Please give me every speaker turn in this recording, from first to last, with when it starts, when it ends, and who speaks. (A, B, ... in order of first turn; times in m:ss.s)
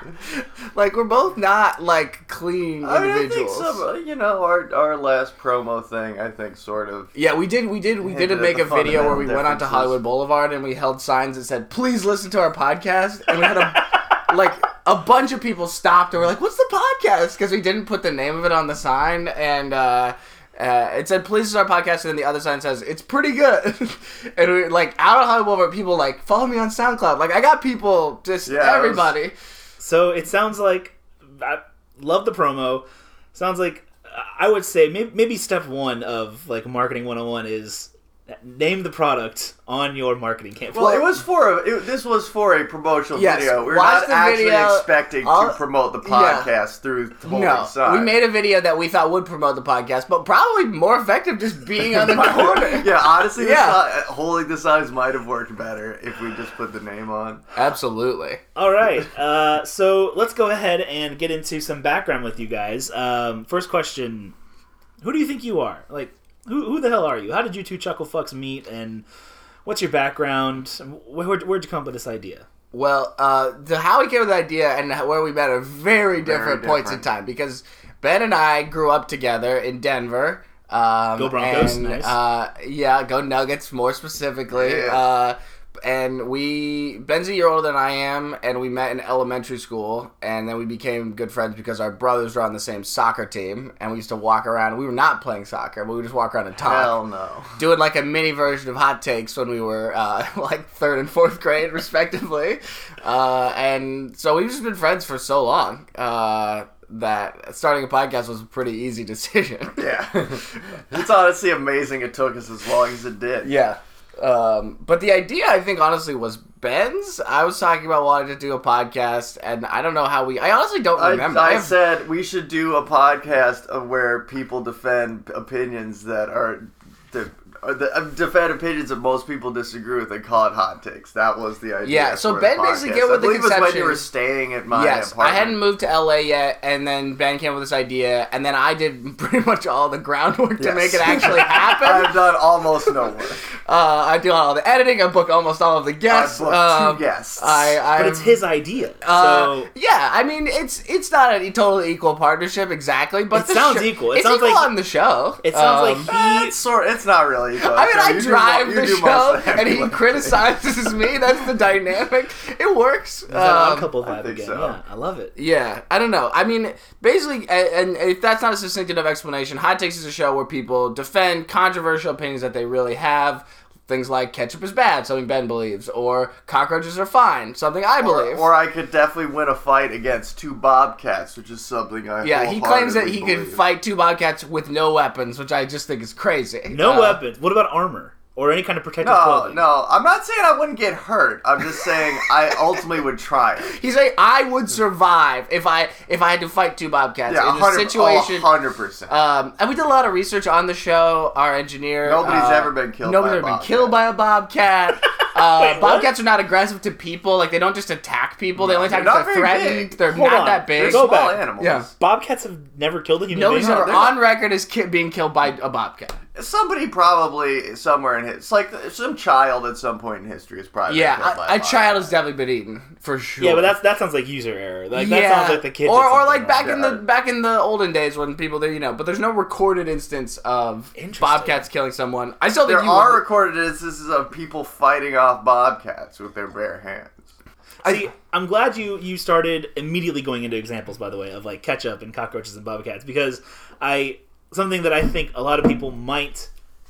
0:00.3-0:03.8 A
0:02.8-0:07.1 B
0:07.1-0:29.3 A
0:08.0-0:10.0 B
0:28.4-0:29.1 B
0:29.8-0:41.2 C
0:40.7-0:48.2 B
0:43.2-0:46.5 A
0:47.2-0:53.8 A
0:51.9-0:57.4 B
0:57.5-0:58.4 A
0:58.6-1:04.3 C
1:05.0-1:09.0 C
1:09.6-1:12.4 C
1:12.7-1:36.9 A
1:16.2-1:17.0 B
1:21.2-1:22.2 C
1:24.5-1:25.0 B
1:36.6-1:37.5 B
1:37.6-1:49.8 A
1:49.8-1:53.5 B
1:53.4-2:01.7 A
2:01.0-2:15.6 B
2:11.8-2:14.0 A
2:14.7-2:22.2 A
2:20.6-2:23.4 B
2:23.6-2:28.4 A
2:26.1-2:27.8 B
2:27.9-2:29.7 C
2:29.0-2:36.1 A
2:33.3-2:34.7 C
2:35.4-2:36.5 C
2:36.0-2:40.4 B
2:37.6-2:43.9 A
2:43.3-2:45.3 C
2:44.0-2:44.8 B
2:45.4-2:58.4 A
2:58.0-3:03.6 B
3:02.2-3:07.2 A
3:06.7-3:09.6 C
3:09.0-3:13.7 B
3:13.7-3:18.5 A
3:17.3-3:19.1 B
3:19.1-3:31.9 A
3:22.0-3:24.0 B
3:25.5-3:26.1 C
3:28.6-3:30.0 B
3:30.1-3:31.5 C
3:30.7-3:31.9 B
3:32.0-3:34.1 C
3:33.3-3:36.2 A
3:36.3-3:42.1 B
3:40.9-3:43.7 A
3:43.4-3:46.7 C
3:44.9-3:53.2 A
3:46.6-3:47.0 B
3:51.0-3:51.6 C
3:52.6-3:57.3 B
3:57.8-4:06.5 C